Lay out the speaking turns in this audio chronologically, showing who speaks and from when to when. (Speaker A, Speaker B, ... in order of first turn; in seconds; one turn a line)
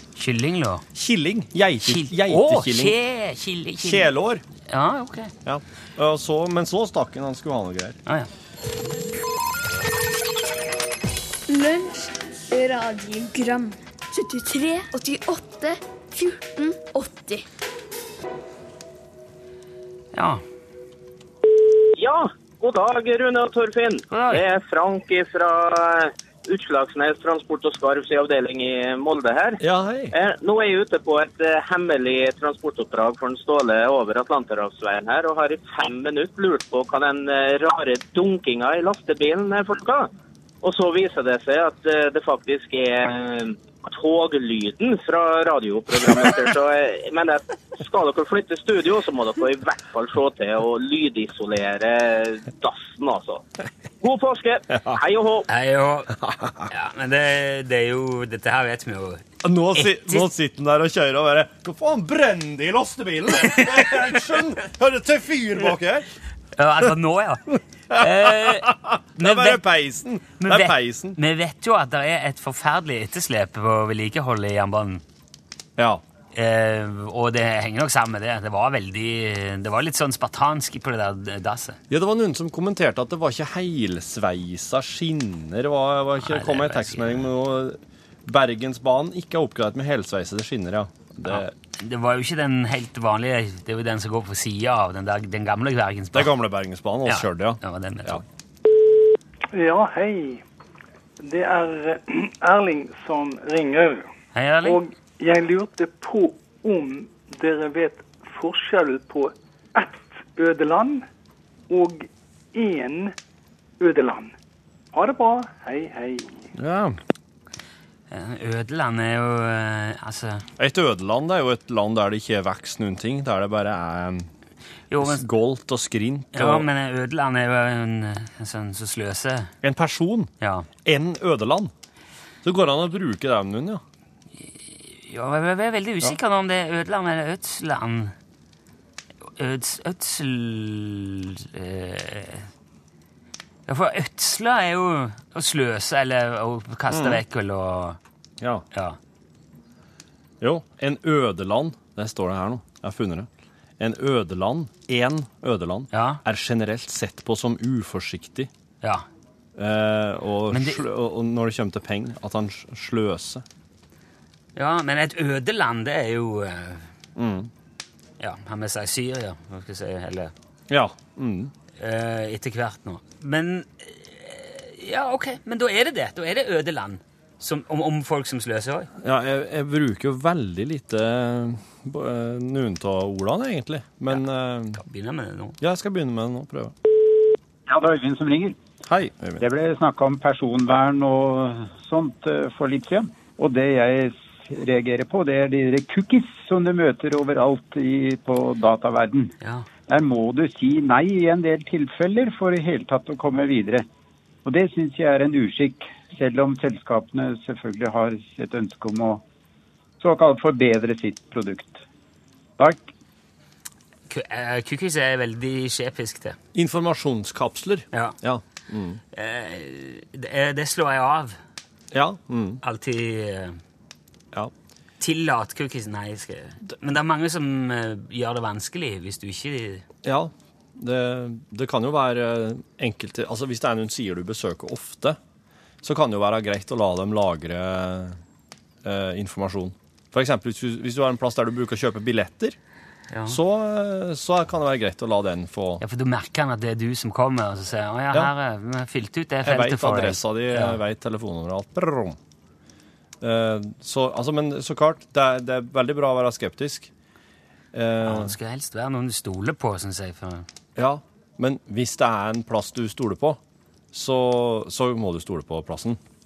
Speaker A: 0.2-0.8
Speaker B: 0.9-3.0
Speaker A: 1.8-4.1
Speaker B: 3.8-4.4
Speaker A: 4.7-5.3
Speaker B: 5.4-8.0
Speaker C: 11.5-17.4
Speaker A: 20.1-20.4
Speaker D: 22.0-29.6
Speaker A: 24.1-24.4
Speaker B: 29.6-30.1
Speaker D: 30.1-40.1
Speaker D: 40.6-53.4
Speaker D: 54.0-55.4
Speaker A: 55.5-56.1
Speaker B: 56.2-56.6
Speaker A: 56.7-59.2
Speaker B: 59.4-66.0
Speaker A: 59.7-60.3
Speaker A: 66.6-67.4
Speaker B: 67.9-71.2
Speaker A: 67.9-69.6
Speaker A: 70.4-75.0
Speaker B: 75.8-76.0
Speaker A: 76.3-81.8
Speaker B: 81.9-91.5
Speaker A: 86.2-87.2
Speaker A: 91.3-96.3
Speaker B: 96.1-98.2
Speaker A: 97.0-98.2
Speaker E: 99.5-100.4
Speaker E: 101.2-104.1
Speaker A: 104.3-104.8
Speaker E: 104.6-111.0
Speaker E: 111.7-113.1
Speaker E: 113.8-114.3
Speaker E: 114.9-116.4
Speaker B: 116.5-117.0
Speaker A: 118.1-120.4
Speaker B: 120.6-124.3
Speaker A: 124.9-125.2
Speaker B: 125.0-126.7
Speaker A: 126.3-129.5
Speaker B: 129.6-130.3
Speaker A: 130.4-130.7
Speaker B: 130.8-131.7
Speaker B: 132.4-133.8
Speaker A: 135.1-138.1
Speaker A: 139.4-142.4
Speaker A: 143.7-148.0
Speaker B: 146.9-147.2
Speaker B: 150.4-153.3
Speaker B: 153.8-158.5
Speaker A: 155.9-156.2
Speaker B: 159.6-163.4
Speaker A: 160.5-160.8
Speaker A: 164.6-166.8
Speaker B: 167.2-167.5
Speaker A: 168.2-170.3
Speaker B: 170.7-171.5
Speaker A: 171.8-178.9
Speaker B: 179.0-184.8
Speaker A: 184.8-185.6
Speaker B: 185.6-186.7
Speaker F: 187.7-188.6
Speaker B: 188.9-189.4
Speaker F: 189.4-199.3
Speaker F: 199.9-203.8
Speaker F: 204.4-209.2
Speaker F: 210.0-211.8
Speaker F: 212.6-212.8
Speaker A: 214.1-216.3
Speaker B: 216.5-219.0
Speaker A: 219.1-221.3
Speaker B: 221.9-222.6
Speaker A: 222.6-223.6
Speaker A: 225.0-229.8
Speaker B: 230.0-235.2
Speaker B: 235.8-238.2
Speaker B: 238.8-242.6
Speaker A: 243.1-243.4
Speaker B: 243.3-245.8
Speaker A: 245.8-250.8
Speaker B: 249.4-252.2
Speaker B: 253.2-256.9
Speaker B: 257.7-258.4
Speaker A: 258.0-260.4
Speaker B: 260.8-263.4
Speaker B: 263.9-266.0